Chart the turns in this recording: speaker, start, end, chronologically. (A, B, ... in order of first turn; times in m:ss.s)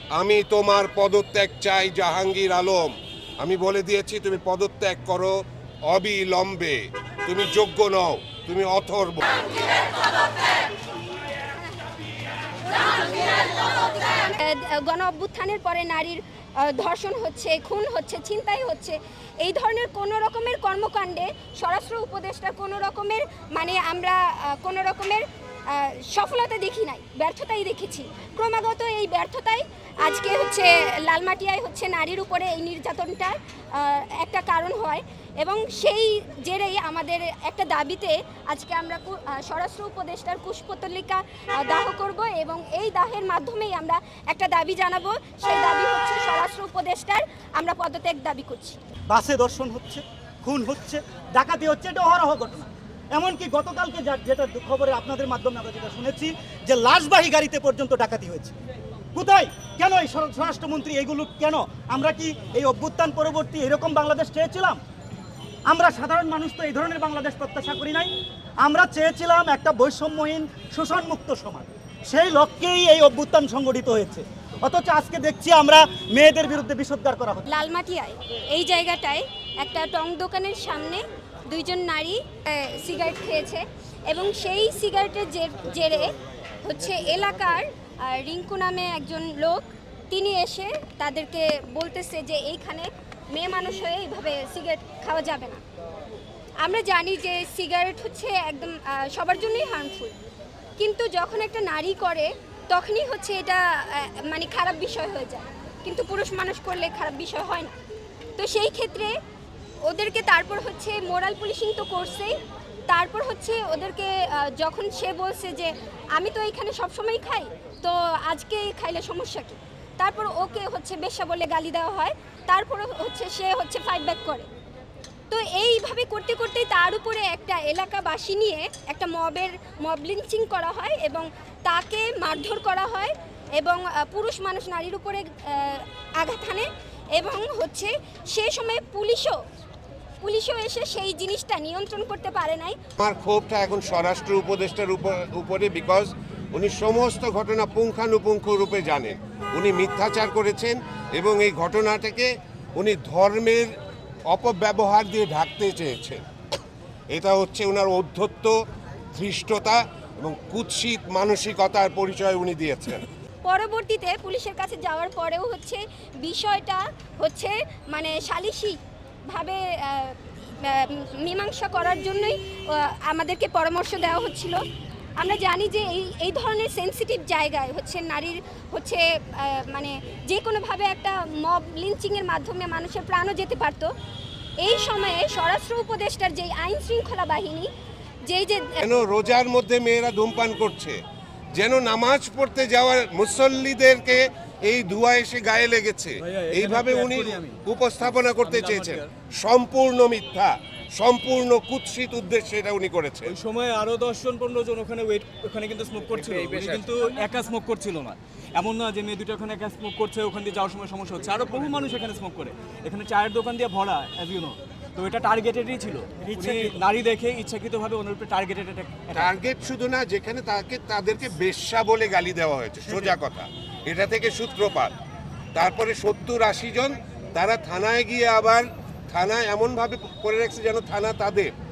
0:00.1-0:05.3 A
0:05.9-0:09.3 A
0:12.6-0:48.8 B
0:49.1-0:58.6 C
0:59.1-1:04.8 C
1:05.7-1:17.4 C
1:17.5-1:35.6 B
1:36.6-1:40.2 B
1:40.8-1:47.7 B
1:48.4-1:49.1 B
1:49.8-1:52.3 B
1:52.9-2:04.5 B
2:05.3-2:19.4 B
2:20.2-2:22.8 B
2:23.0-2:33.7 A
2:34.3-2:36.2 A
2:37.1-2:38.6 A
2:39.1-2:43.0 A
2:43.4-2:54.6 B
2:55.2-3:03.9 B
3:04.6-3:07.7 B
3:08.3-3:08.8 B
3:08.8-3:11.0 A
3:11.6-3:23.3 A
3:16.2-3:17.6 D
3:18.2-3:19.1 D
3:23.3-3:39.3 D
3:39.1-3:44.9 A
3:45.5-3:51.5 A